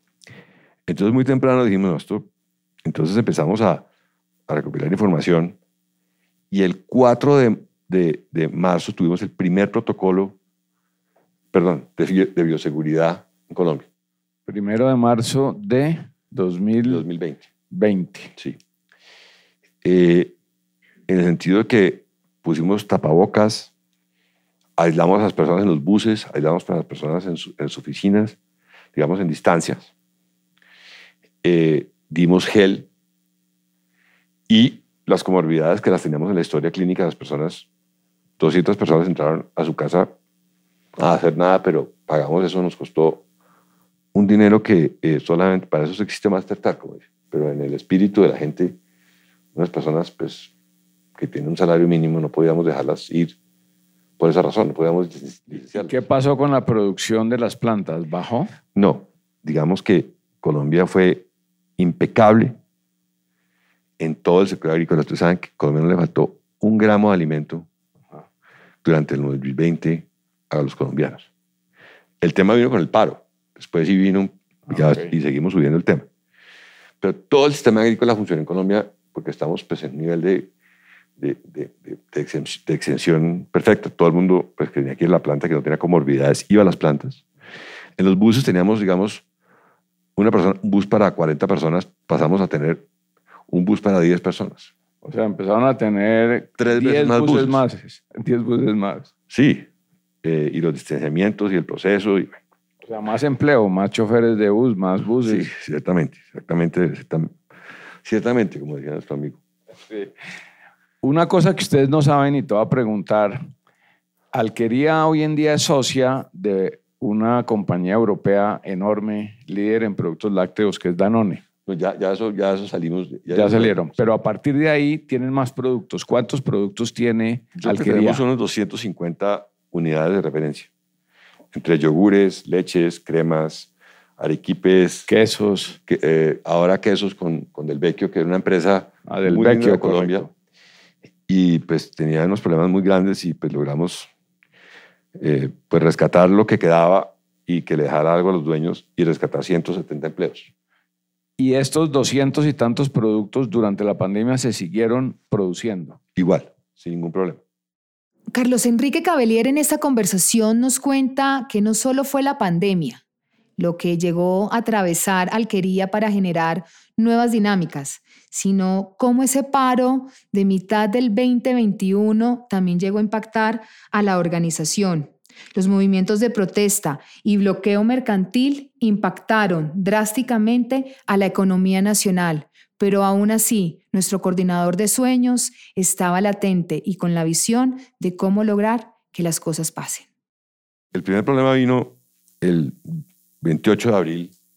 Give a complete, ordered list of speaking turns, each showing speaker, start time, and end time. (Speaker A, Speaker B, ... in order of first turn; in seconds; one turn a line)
Speaker A: 0.9-2.3
Speaker A: 2.8-3.8
Speaker A: 4.5-5.6
Speaker A: 6.5-10.3
Speaker A: 11.5-13.9
Speaker B: 14.5-17.0
Speaker A: 16.9-17.4
Speaker B: 17.7-18.3
Speaker A: 19.8-20.3
Speaker A: 21.1-23.7
Speaker A: 24.8-28.4
Speaker A: 28.9-29.9
Speaker A: 31.4-32.9
Speaker A: 34.5-37.6
Speaker A: 38.4-40.1
Speaker A: 41.0-43.2
Speaker A: 44.1-48.8
Speaker A: 49.5-50.5
Speaker A: 51.1-53.3
Speaker A: 54.2-55.9
Speaker B: 55.7-58.5
Speaker A: 58.7-61.2
Speaker A: 61.8-62.6
Speaker A: 64.0-67.7
Speaker A: 68.8-71.3
Speaker A: 72.2-76.1
Speaker B: 74.7-75.1
Speaker A: 77.0-80.5
Speaker A: 81.2-87.2
Speaker A: 88.0-89.2
Speaker A: 90.2-92.8
Speaker A: 93.5-94.7
Speaker B: 95.0-99.1
Speaker A: 96.6-97.6
Speaker A: 99.3-99.7
Speaker A: 100.2-102.4
Speaker B: 102.8-105.5
Speaker A: 105.2-107.3
Speaker A: 108.0-109.4
Speaker B: 111.0-113.4
Speaker B: 114.3-121.4
Speaker A: 121.7-124.0
Speaker B: 123.3-128.2
Speaker A: 127.6-130.7
Speaker A: 131.5-135.1
Speaker B: 135.1-135.8
Speaker A: 135.9-140.3
Speaker B: 139.1-140.3
Speaker A: 141.3-144.1
Speaker A: 145.2-150.5
Speaker B: 151.4-156.0
Speaker A: 156.1-157.4
Speaker C: 158.3-163.0
Speaker C: 163.6-190.1
Speaker A: 190.9-194.3